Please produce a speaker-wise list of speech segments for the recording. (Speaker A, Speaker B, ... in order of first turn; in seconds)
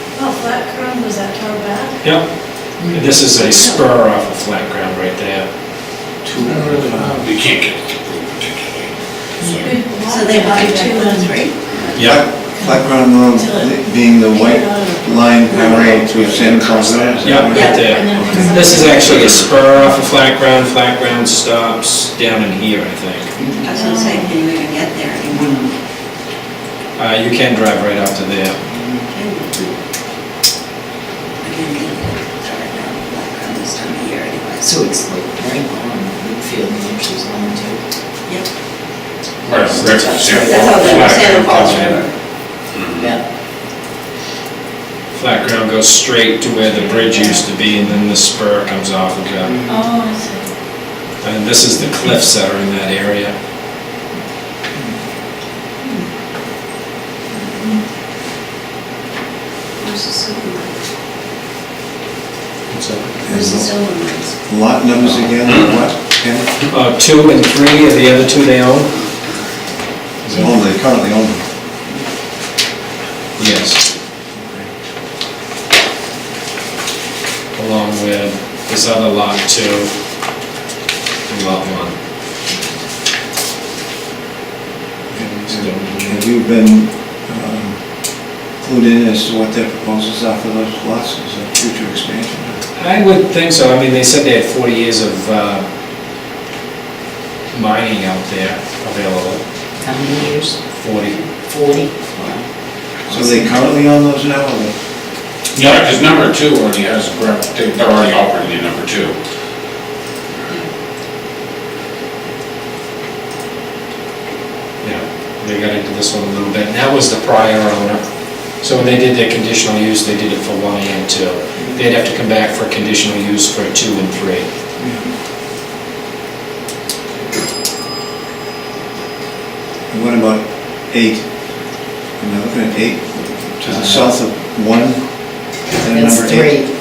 Speaker A: 0.1-2.0, 9.7-11.4, 13.4-15.2, 17.6-19.0, 23.7-24.3, 46.9-47.4, 49.7-50.4
Speaker B: 2.0-5.5, 11.9-12.2, 17.2-23.3, 27.0-28.6, 39.5-40.2, 40.8-42.0, 45.1-49.6, 51.2-53.3, 62.7-63.2, 66.7-69.0, 73.4-73.8, 77.5-79.9, 81.3-81.9, 85.1-86.3, 92.8-95.6, 97.5-99.4, 100.8-101.2, 114.8-124.5
Speaker C: 3.4-3.8, 10.0-12.0, 15.5-16.0, 17.5-18.0, 23.6-25.7, 29.1-29.7, 31.4-34.8, 40.3-42.1, 59.8-60.8, 63.3-64.3
Speaker D: 6.2-7.3, 11.9-18.7, 63.2-63.8, 64.4-66.5, 70.3-71.4, 74.4-74.7, 85.2-92.6, 103.1-104.7, 124.8-125.0, 129.9-131.3, 132.2-136.6
Speaker E: 6.5-9.9, 15.9-17.7, 18.9-19.6, 39.4-40.9, 42.7-43.1, 105.5-109.2
Speaker F: 23.4-23.6, 34.6-37.8, 39.8-41.2, 99.8-100.6, 101.5-102.4, 103.1-103.5, 135.8-136.7